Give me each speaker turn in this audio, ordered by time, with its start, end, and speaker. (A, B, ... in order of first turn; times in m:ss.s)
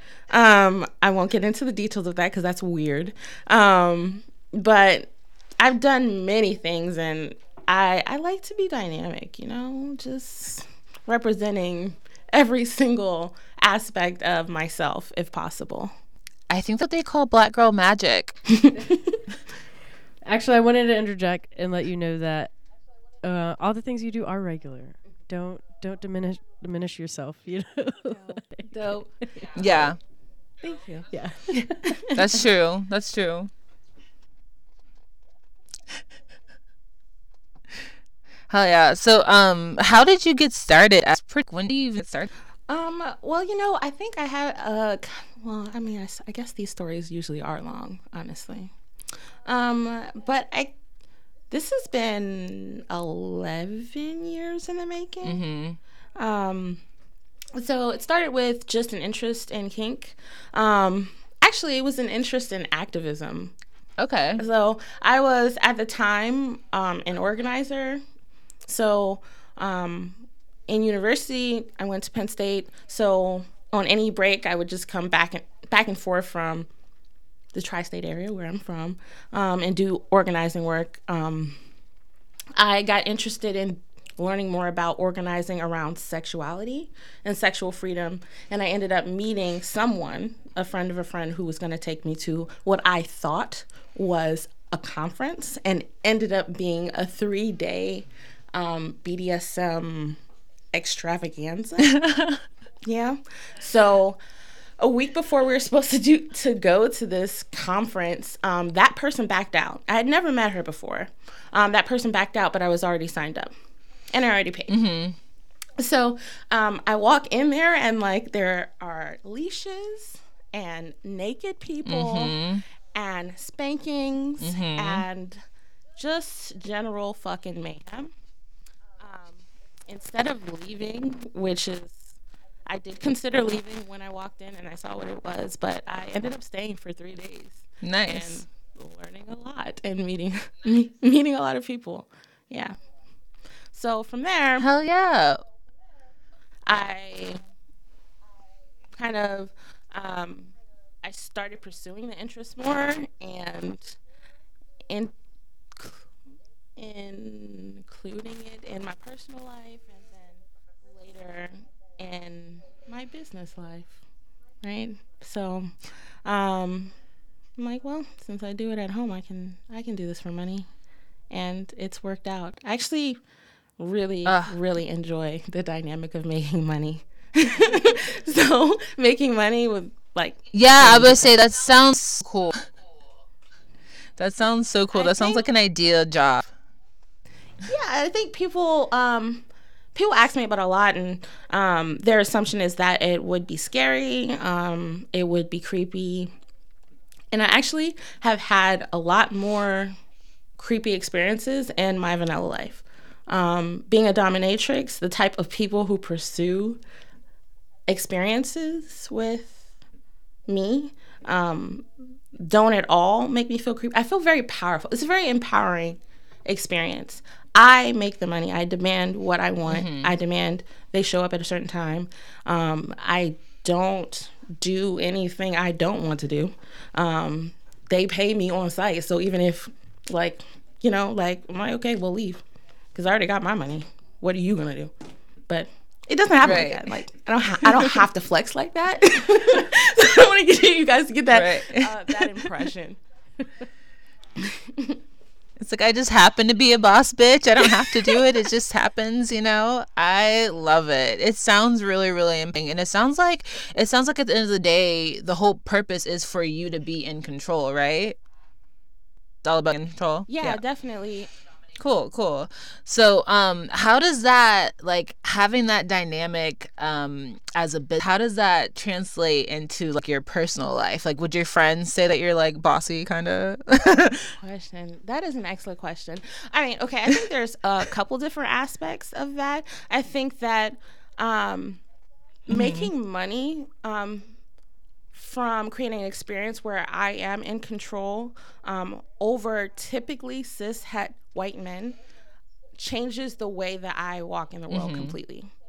0:00.3-0:15.9 A
0:16.5-0:18.4 B
0:18.5-0:19.2 A
0:20.3-0:22.5 C
0:23.2-0:29.6 C
0:28.1-0:29.9 A
0:29.6-0:30.0 B
0:30.6-0:31.1 A
0:31.1-0:32.1 C
0:31.6-0:32.4 A
0:32.1-0:33.5 B
0:38.5-0:42.3 B
0:42.7-0:48.7 A
0:49.4-0:50.8 A
0:51.5-0:55.4 A
0:55.2-0:55.8 B
0:56.2-0:56.8 A
0:57.6-1:03.6 A
1:04.0-1:04.4 B
1:04.4-1:08.0 A
1:08.7-1:16.7 A
1:17.5-1:21.6 A
1:22.6-1:40.2 A
1:40.7-1:42.0 A
1:41.8-1:42.4 B
1:42.8-1:44.2 A
1:44.8-1:53.5 A
1:54.1-1:54.8 A
1:54.7-1:55.2 B
1:55.8-2:02.4 A
2:01.8-2:02.6 B
2:02.9-2:05.4 A
2:04.4-2:05.0 B
2:06.0-2:08.1 A
2:09.0-2:22.8 A
2:17.8-2:18.4 B
2:23.7-2:24.7 A
2:24.6-2:25.4 B
2:26.7-2:27.4 A
2:29.0-2:30.5 A
2:31.0-2:34.0 A
2:35.8-2:36.1 A
2:36.8-2:44.0 A
2:44.6-2:46.9 A
2:47.6-2:50.7 A
2:51.3-2:53.2 A
2:53.8-3:01.3 A
2:54.2-2:54.6 B
3:00.5-3:02.7 B
3:04.2-3:06.5 B
3:04.9-3:05.4 A
3:07.6-3:16.3 A
3:17.3-3:20.0 A
3:20.6-3:26.8 A
3:27.9-3:29.7 A
3:30.5-3:52.4 A
3:39.7-3:40.2 B
3:53.0-3:54.9 A
3:55.5-4:03.0 A
3:56.4-3:57.0 B
3:57.6-3:58.1 B
4:01.3-4:02.6 B
4:04.4-4:05.0 A
4:05.6-4:18.2 B
4:07.8-4:08.2 A
4:19.4-4:20.6 B
4:20.3-4:21.3 A
4:21.8-4:34.3 B
4:34.4-4:41.8 A
4:42.5-4:42.9 B
4:42.5-4:44.4 A
4:45.1-4:52.0 A
4:52.8-4:55.5 A
4:54.7-4:55.2 B